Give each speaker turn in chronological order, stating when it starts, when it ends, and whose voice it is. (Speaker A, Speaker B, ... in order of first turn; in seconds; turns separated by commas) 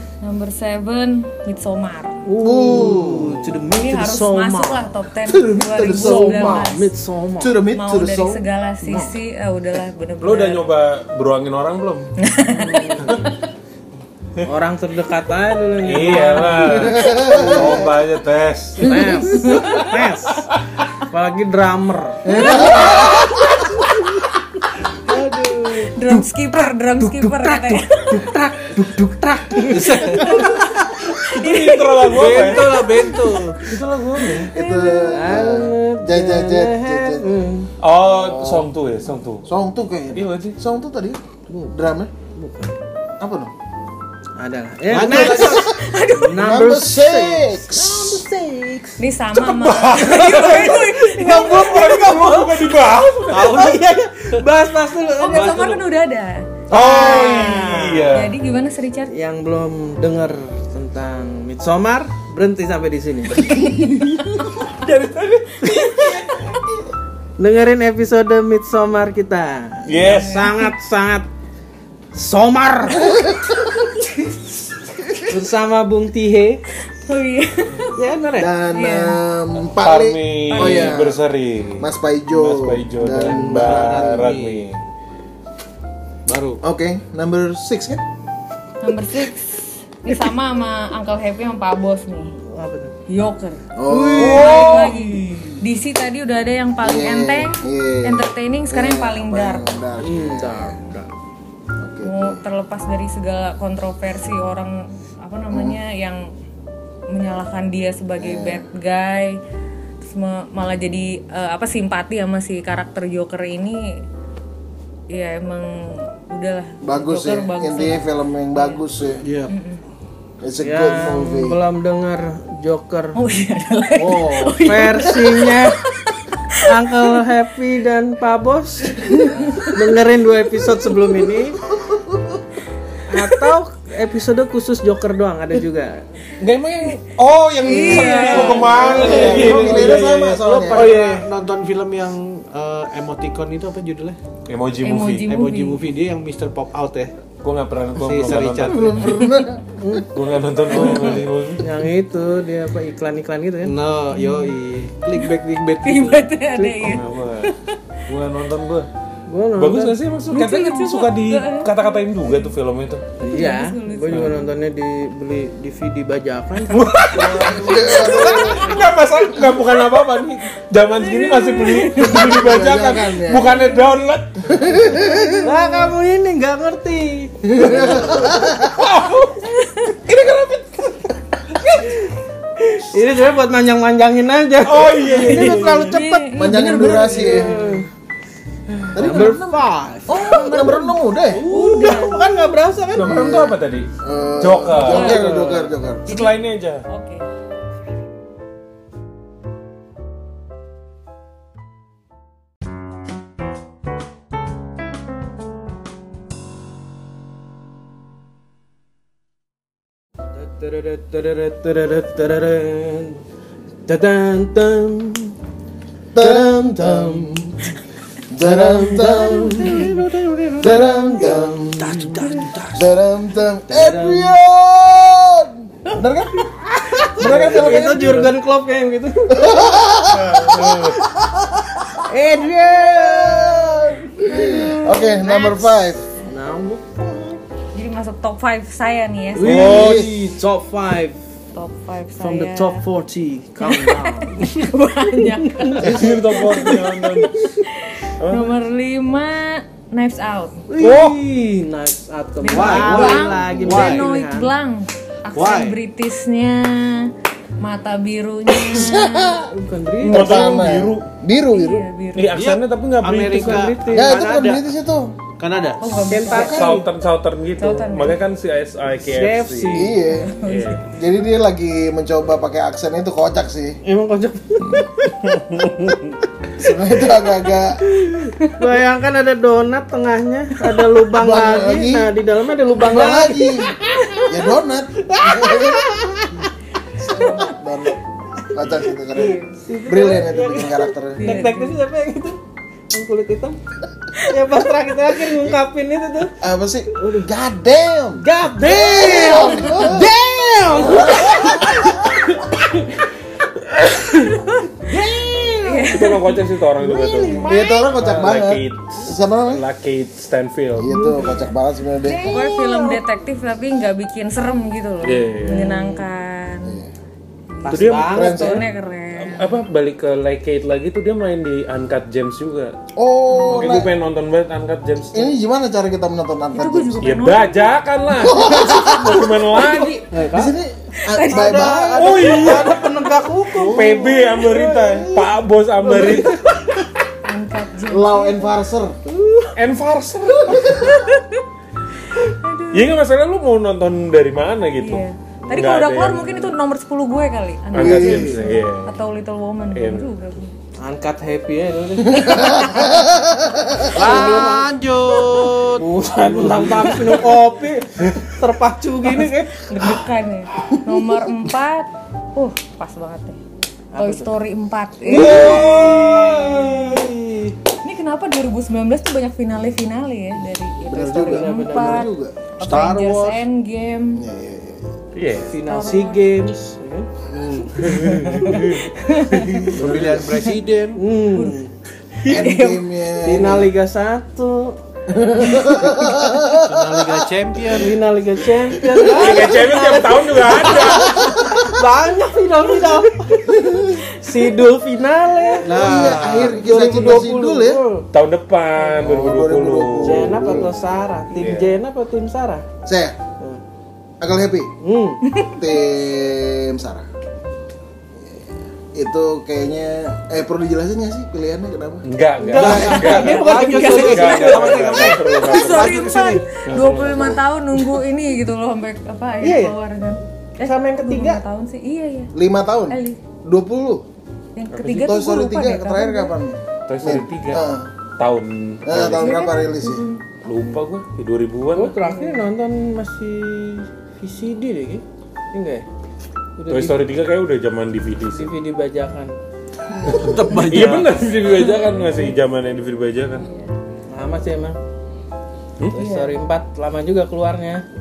Speaker A: 0.2-2.2, Speaker B: 2.2-4.9, Speaker C: 2.4-3.5, Speaker A: 3.7-6.9, Speaker C: 5.3-6.7, Speaker B: 5.8-7.6, Speaker C: 7.4-8.4, Speaker A: 7.7-10.7, Speaker D: 10.2-12.1, Speaker A: 12.2-13.3, Speaker B: 12.5-13.2, Speaker B: 14.4-17.2, Speaker D: 15.8-18.9, Speaker C: 16.7-17.9, Speaker B: 18.8-23.2, Speaker A: 19.2-19.9, Speaker C: 22.2-23.6, Speaker B: 25.1-26.0, Speaker A: 25.9-28.2, Speaker B: 27.0-30.7, Speaker E: 29.7-30.6, Speaker A: 31.2-32.6, Speaker D: 31.3-34.5, Speaker E: 32.0-33.7, Speaker C: 34.5-37.3, Speaker A: 34.5-35.1, Speaker B: 35.1-37.7, Speaker D: 37.8-39.4, Speaker C: 38.1-38.7, Speaker C: 39.5-41.2, Speaker D: 40.1-40.5, Speaker B: 41.5-41.7, Speaker C: 41.7-42.1, Speaker B: 42.2-42.7, Speaker C: 43.2-43.5, Speaker B: 44.4-49.0, Speaker E: 44.9-45.7, Speaker C: 45.0-48.2, Speaker A: 45.3-46.5, Speaker A: 49.0-51.7, Speaker D: 49.3-53.7, Speaker B: 50.2-52.8, Speaker E: 53.3-53.8, Speaker B: 53.4-55.8, Speaker A: 55.2-59.1, Speaker E: 55.3-55.7, Speaker D: 56.7-58.4, Speaker B: 56.7-58.2, Speaker B: 59.1-63.6, Speaker D: 64.6-66.4, Speaker B: 67.4-71.3, Speaker D: 69.8-70.6, Speaker A: 70.0-70.6, Speaker B: 72.1-73.2, Speaker C: 73.1-73.5, Speaker B: 75.2-76.6, Speaker A: 77.0-78.0, Speaker B: 77.9-78.5, Speaker C: 78.4-81.2, Speaker A: 78.7-79.2, Speaker D: 79.8-84.8, Speaker A: 80.5-81.0, Speaker C: 81.8-84.3, Speaker E: 83.3-84.6, Speaker E: 86.2-86.6, Speaker C: 86.6-88.0, Speaker A: 88.8-92.3, Speaker B: 92.4-92.9, Speaker A: 93.1-93.6, Speaker C: 93.8-94.6, Speaker B: 93.9-95.6, Speaker D: 94.2-94.9, Speaker A: 94.2-99.7, Speaker C: 96.8-100.8, Speaker B: 100.0-101.1, Speaker C: 101.8-102.4, Speaker A: 102.0-106.3, Speaker C: 105.5-105.8, Speaker A: 107.1-109.4, Speaker C: 108.2-108.7, Speaker A: 110.0-114.0, Speaker A: 115.1-118.0, Speaker C: 116.8-119.2, Speaker E: 119.2-119.5, Speaker A: 119.5-119.8, Speaker C: 120.4-121.6, Speaker B: 120.6-123.2, Speaker A: 123.1-127.1, Speaker E: 124.0-124.6, Speaker B: 124.5-125.8, Speaker B: 126.6-131.6, Speaker A: 129.2-129.9, Speaker B: 133.1-136.0, Speaker D: 136.4-140.4, Speaker A: 137.6-139.2, Speaker B: 137.8-139.9, Speaker C: 138.4-141.0, Speaker E: 138.8-144.2, Speaker B: 140.5-141.2, Speaker D: 144.5-145.4, Speaker A: 144.8-145.8, Speaker E: 145.3-147.1, Speaker D: 147.4-149.1, Speaker E: 148.0-149.0, Speaker C: 148.6-149.6, Speaker B: 149.8-150.1, Speaker D: 150.1-151.6, Speaker B: 150.7-153.7, Speaker E: 150.8-151.2, Speaker E: 153.6-156.3, Speaker A: 154.1-154.6, Speaker A: 155.8-157.8, Speaker B: 156.5-157.0, Speaker D: 156.8-157.5, Speaker D: 158.1-158.9, Speaker B: 159.3-160.0, Speaker D: 159.6-163.1, Speaker A: 160.3-161.8, Speaker B: 163.2-168.1, Speaker A: 163.2-164.4, Speaker D: 164.1-164.4, Speaker D: 166.7-174.8, Speaker C: 167.1-168.7, Speaker A: 171.0-172.4, Speaker C: 171.9-173.6, Speaker C: 174.5-175.5, Speaker A: 175.2-175.7, Speaker B: 175.4-178.1, Speaker C: 177.4-178.8, Speaker D: 178.7-181.9, Speaker A: 179.6-179.9, Speaker B: 182.8-187.9, Speaker D: 184.6-186.0, Speaker A: 185.2-187.4, Speaker C: 186.3-187.6, Speaker B: 188.9-193.2, Speaker C: 188.9-191.4, Speaker A: 190.4-192.2, Speaker D: 192.9-195.3, Speaker C: 193.0-196.1, Speaker A: 194.8-195.2, Speaker B: 194.9-195.7, Speaker D: 196.1-196.8, Speaker A: 196.1-197.3, Speaker B: 210.3-213.2, Speaker B: 213.9-215.3, Speaker C: 216.1-217.4, Speaker B: 216.2-217.7, Speaker C: 218.3-219.9, Speaker B: 218.4-222.7, Speaker C: 220.6-222.1, Speaker E: 221.8-222.8, Speaker C: 222.7-226.5, Speaker B: 223.7-224.3, Speaker B: 226.7-229.7, Speaker C: 227.1-228.3, Speaker D: 227.2-228.3, Speaker C: 229.3-230.5, Speaker D: 230.1-231.0, Speaker C: 231.2-231.8, Speaker B: 232.0-235.2, Speaker C: 232.8-236.0, Speaker A: 234.9-235.9, Speaker B: 236.2-237.4, Speaker A: 237.7-240.0, Speaker B: 239.3-241.2, Speaker D: 239.4-240.1, Speaker C: 239.4-240.2, Speaker A: 241.5-242.8, Speaker B: 242.2-246.7, Speaker A: 243.6-250.6, Speaker D: 245.8-247.3, Speaker D: 248.2-248.5, Speaker B: 250.7-254.5, Speaker D: 250.8-251.2, Speaker A: 252.4-259.4, Speaker E: 252.5-254.1, Speaker E: 255.3-255.8, Speaker C: 258.6-259.5, Speaker B: 259.5-260.4, Speaker D: 260.0-261.1, Speaker C: 260.0-261.9, Speaker A: 261.5-262.4, Speaker D: 262.1-263.7, Speaker E: 262.3-264.7, Speaker B: 263.2-264.2, Speaker C: 263.9-265.1, Speaker E: 265.4-265.8, Speaker A: 265.8-266.7, Speaker B: 266.1-266.9, Speaker D: 266.3-269.9, Speaker A: 267.6-268.2, Speaker B: 269.1-270.1, Speaker C: 269.7-270.3, Speaker A: 270.0-270.9, Speaker D: 270.4-270.8, Speaker C: 270.9-273.8, Speaker B: 273.8-275.4, Speaker D: 275.3-276.0, Speaker C: 276.6-277.8, Speaker B: 278.0-284.4, Speaker C: 281.1-282.1, Speaker C: 282.8-285.9, Speaker B: 285.0-286.5, Speaker C: 287.0-288.0, Speaker A: 287.1-287.5, Speaker C: 288.5-291.3, Speaker B: 289.1-292.4, Speaker A: 291.2-291.8, Speaker B: 292.9-293.6, Speaker B: 294.2-296.3, Speaker C: 296.4-300.1, Speaker B: 297.0-297.2, Speaker B: 298.2-302.4, Speaker C: 300.8-301.9, Speaker A: 304.3-304.6, Speaker B: 304.7-306.2, Speaker A: 305.6-306.4, Speaker D: 305.9-307.4, Speaker B: 306.8-307.9, Speaker A: 307.2-307.8, Speaker C: 307.4-309.6, Speaker D: 307.9-310.9, Speaker C: 310.8-312.3, Speaker B: 310.9-311.4, Speaker A: 312.1-316.8, Speaker B: 312.1-313.0, Speaker D: 315.0-315.7, Speaker B: 315.4-316.1, Speaker C: 316.6-316.9, Speaker A: 317.5-319.6, Speaker B: 317.6-318.6, Speaker D: 317.7-318.3, Speaker C: 318.0-318.6, Speaker D: 319.1-322.8, Speaker C: 322.9-323.9, Speaker A: 323.3-323.8, Speaker D: 323.4-325.3, Speaker C: 325.1-327.2, Speaker A: 326.5-327.7, Speaker D: 327.0-330.0, Speaker C: 328.2-329.3, Speaker A: 328.8-330.0, Speaker B: 330.1-330.5, Speaker C: 330.3-332.4, Speaker A: 331.0-332.4, Speaker B: 331.3-336.7, Speaker D: 332.0-332.9, Speaker E: 333.5-334.1, Speaker D: 333.6-336.4, Speaker A: 337.2-338.6, Speaker C: 337.9-338.9, Speaker B: 339.1-339.5, Speaker D: 339.6-341.0, Speaker C: 340.5-340.9, Speaker A: 342.3-342.8, Speaker D: 342.7-346.5, Speaker A: 344.8-350.5, Speaker D: 347.7-348.9, Speaker C: 347.8-348.4, Speaker D: 349.7-350.1, Speaker B: 350.8-352.8, Speaker C: 352.1-354.6, Speaker E: 353.8-357.4, Speaker B: 353.9-354.7, Speaker B: 355.8-360.0, Speaker A: 359.5-363.4, Speaker B: 363.9-364.3, Speaker A: 363.9-366.0, Speaker B: 365.0-367.5, Speaker D: 365.1-366.2, Speaker E: 365.2-365.9, Speaker A: 366.6-366.9, Speaker A: 367.8-374.2, Speaker C: 370.9-372.5, Speaker B: 371.1-372.1, Speaker E: 372.6-373.4, Speaker C: 374.1-374.9, Speaker D: 375.1-375.5, Speaker B: 375.5-377.1, Speaker A: 375.6-376.4, Speaker C: 377.3-378.1, Speaker B: 377.8-378.7, Speaker D: 377.8-380.2, Speaker A: 378.4-379.8, Speaker E: 379.7-381.0, Speaker B: 380.9-381.7, Speaker A: 382.2-382.9, Speaker C: 382.3-383.7, Speaker B: 383.2-384.8, Speaker C: 385.1-387.2, Speaker E: 386.6-388.0, Speaker B: 387.7-398.1, Speaker D: 389.0-391.2, Speaker C: 391.2-391.6, Speaker E: 395.6-396.9, Speaker C: 395.7-397.8, Speaker D: 398.1-401.8, Speaker C: 399.0-400.7, Speaker B: 400.0-402.6, Speaker C: 402.8-403.2, Speaker C: 404.2-404.7, Speaker B: 404.8-405.2, Speaker A: 405.3-405.6, Speaker C: 405.5-407.1, Speaker C: 408.2-412.1, Speaker D: 412.0-416.1, Speaker B: 412.4-415.1, Speaker E: 412.5-416.4, Speaker C: 412.6-412.9, Speaker A: 412.7-414.4, Speaker A: 415.3-422.3, Speaker D: 416.6-417.4, Speaker B: 419.4-419.8, Speaker B: 420.6-421.4, Speaker C: 422.3-424.0, Speaker A: 422.9-423.2, Speaker A: 424.6-426.3, Speaker D: 424.7-425.1, Speaker C: 425.0-427.9, Speaker D: 426.9-427.6, Speaker D: 428.2-429.4, Speaker C: 428.8-430.0, Speaker A: 429.1-430.2, Speaker D: 430.4-431.9, Speaker B: 431.7-435.9, Speaker A: 432.0-432.5, Speaker B: 436.6-437.0, Speaker D: 436.7-438.5, Speaker B: 438.3-439.3, Speaker E: 440.0-441.2, Speaker D: 440.5-443.5, Speaker A: 441.4-442.2, Speaker A: 443.4-443.7, Speaker B: 444.1-444.8, Speaker B: 445.9-447.8, Speaker A: 445.9-446.4